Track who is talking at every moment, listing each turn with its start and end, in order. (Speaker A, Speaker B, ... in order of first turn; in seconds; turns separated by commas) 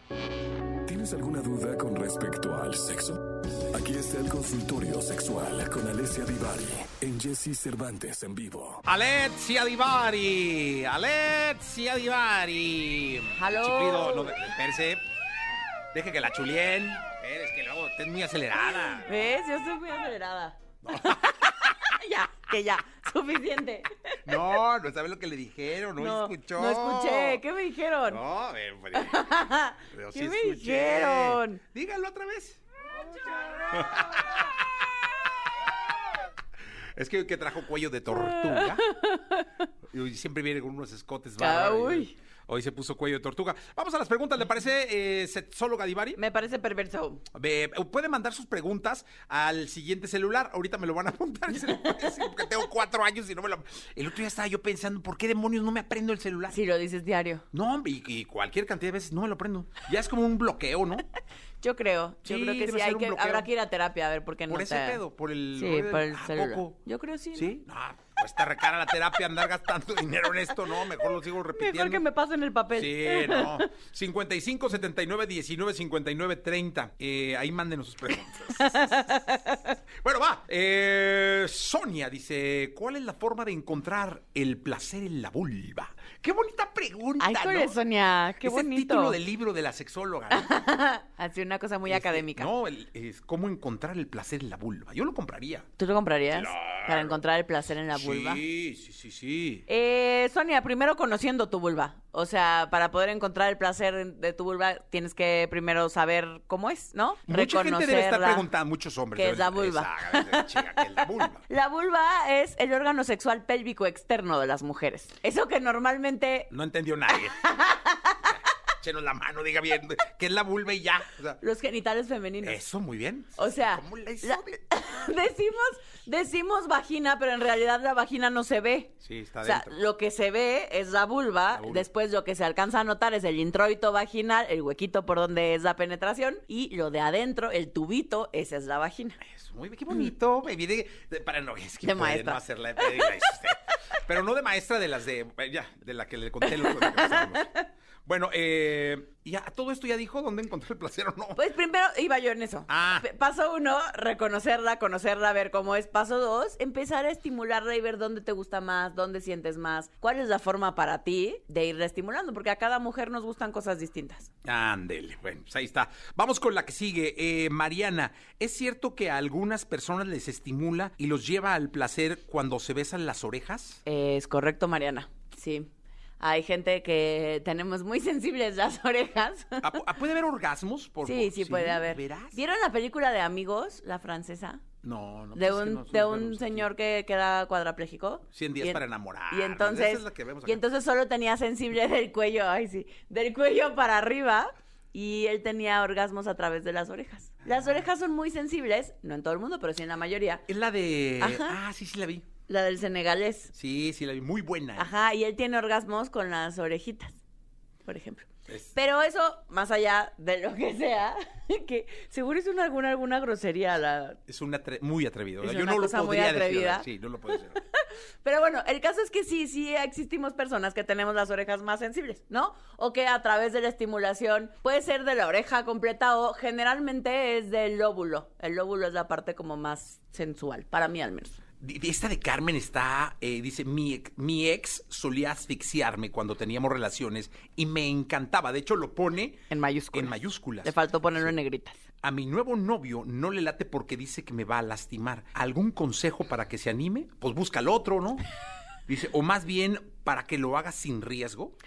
Speaker A: 0.9-8.8, Speaker B: 8.8-15.0, Speaker C: 13.3-14.4, Speaker B: 15.9-19.1, Speaker C: 18.9-24.5, Speaker B: 20.8-21.7, Speaker B: 24.2-27.4, Speaker C: 26.0-28.2, Speaker B: 28.1-29.3, Speaker C: 28.9-31.6, Speaker B: 29.9-32.6, Speaker B: 33.7-34.6, Speaker B: 37.0-38.8, Speaker C: 38.1-39.7, Speaker B: 39.9-46.2, Speaker C: 41.4-42.1, Speaker C: 46.2-47.2, Speaker B: 47.3-56.6, Speaker C: 51.7-52.4, Speaker C: 56.5-57.5, Speaker B: 57.5-61.1, Speaker C: 61.6-65.0, Speaker B: 62.2-63.5, Speaker B: 64.5-66.8, Speaker C: 65.5-67.6, Speaker B: 67.3-72.0, Speaker C: 71.5-73.7, Speaker B: 72.8-79.2, Speaker C: 78.5-79.8, Speaker B: 80.0-87.8, Speaker C: 87.2-89.2, Speaker B: 88.4-90.5, Speaker C: 90.3-92.5, Speaker B: 91.9-95.7, Speaker C: 95.8-98.4, Speaker B: 96.3-97.2, Speaker B: 97.9-99.7, Speaker C: 99.7-108.5, Speaker B: 107.3-111.4, Speaker C: 109.2-116.5, Speaker B: 116.5-117.5, Speaker C: 117.1-118.4, Speaker B: 118.2-121.4, Speaker C: 121.4-122.6, Speaker B: 122.4-124.6, Speaker C: 123.4-139.2, Speaker B: 129.0-129.8, Speaker B: 131.5-131.9, Speaker B: 139.2-147.5, Speaker C: 141.8-143.4, Speaker C: 146.4-147.7, Speaker B: 148.1-151.4, Speaker C: 151.3-164.3, Speaker B: 152.7-153.1, Speaker B: 164.4-173.8, Speaker C: 173.8-179.8, Speaker B: 179.6-182.4, Speaker C: 181.0-184.6, Speaker B: 184.8-186.7, Speaker C: 185.3-200.4, Speaker B: 188.3-190.6, Speaker B: 200.5-202.3, Speaker C: 201.2-201.6, Speaker C: 202.5-203.5, Speaker B: 203.5-204.9, Speaker C: 204.8-207.2, Speaker C: 207.8-214.2, Speaker B: 208.5-208.8, Speaker B: 214.3-217.6, Speaker C: 215.4-231.4, Speaker B: 231.6-241.3, Speaker C: 239.5-241.8, Speaker B: 242.0-248.2, Speaker B: 248.9-251.6